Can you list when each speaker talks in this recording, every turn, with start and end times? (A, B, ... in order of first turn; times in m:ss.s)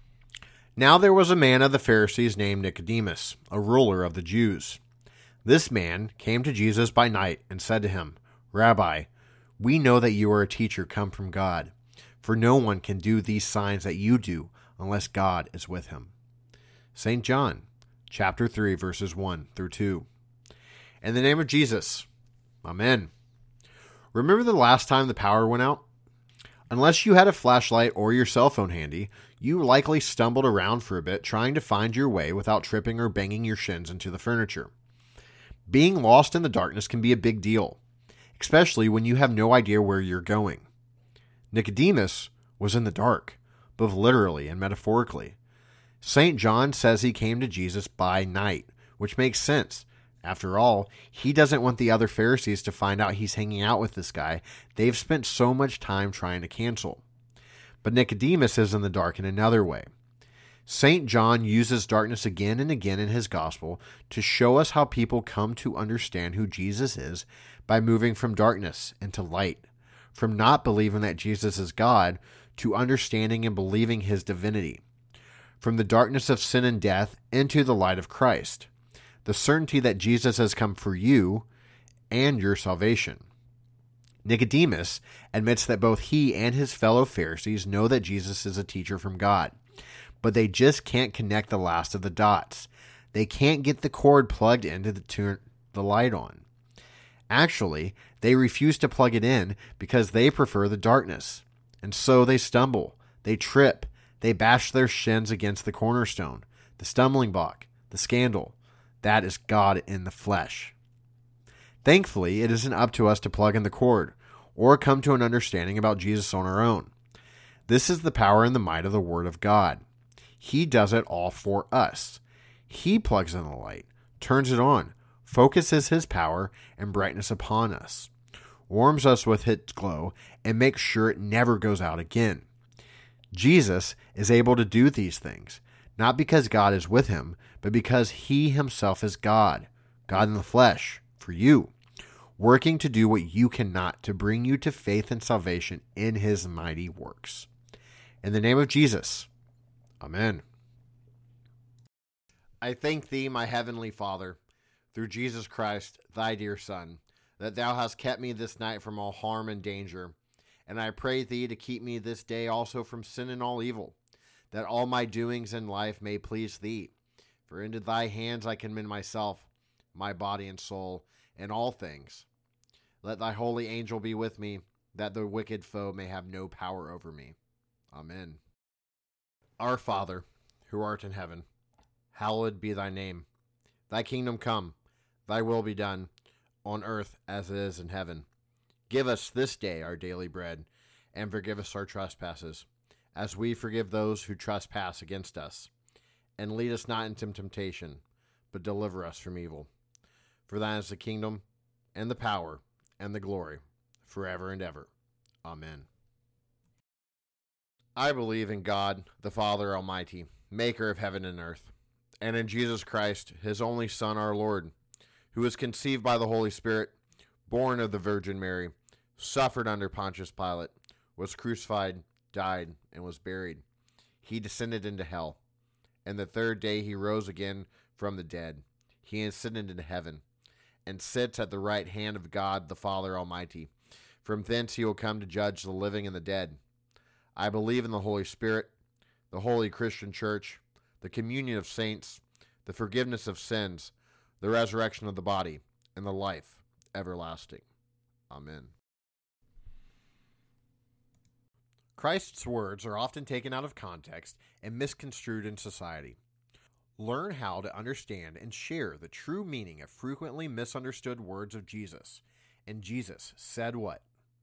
0:00.8-0:04.8 A
0:05.4-0:09.1 A
0:09.6-0:16.1 A
0:17.0-0:20.1 A
0:21.0-0:22.1 A
0:22.6-0:23.1 A
0:24.1-0:25.8 A
0:26.7-0:34.7 A
0:35.7-0:37.8 A
0:38.4-0:40.7 A
0:41.5-0:45.4 A
0:46.0-0:57.0 A
0:57.8-0:59.9 A
1:00.7-1:14.8 A
1:15.6-1:18.7 A
1:19.2-1:21.5 A
1:22.1-1:23.2 A
1:24.2-1:29.6 A
1:30.2-1:36.4 A
1:37.3-1:50.8 A
1:51.8-1:56.9 A
1:57.7-1:59.8 A
2:00.4-2:08.1 A
2:08.7-2:12.4 A
2:13.3-2:21.7 A
2:22.4-2:27.5 A
2:28.2-2:29.3 A
2:30.0-2:30.4 A
2:32.6-2:34.4 A
2:34.9-2:40.2 A
2:40.7-2:44.0 A
2:44.5-2:46.9 A
2:47.5-2:52.3 A
2:53.0-2:57.4 A
2:57.9-2:58.4 A
2:59.6-3:01.5 A
3:02.1-3:03.3 A
3:03.9-3:04.8 A
3:05.3-3:06.1 A
3:06.6-3:08.3 A
3:08.9-3:15.7 A
3:16.4-3:19.7 A
3:20.5-3:21.4 A
3:22.0-3:24.9 A
3:25.4-3:25.9 A
3:28.0-3:34.7 A
3:35.3-3:37.0 A
3:37.5-3:43.6 A
3:44.2-3:45.4 A
3:46.0-3:50.2 A
3:50.9-3:53.7 A
3:54.2-3:56.6 A
3:57.4-3:58.7 A
3:59.3-4:07.6 A
4:08.3-4:08.7 A
4:12.0-4:16.2 A
4:17.0-4:24.0 A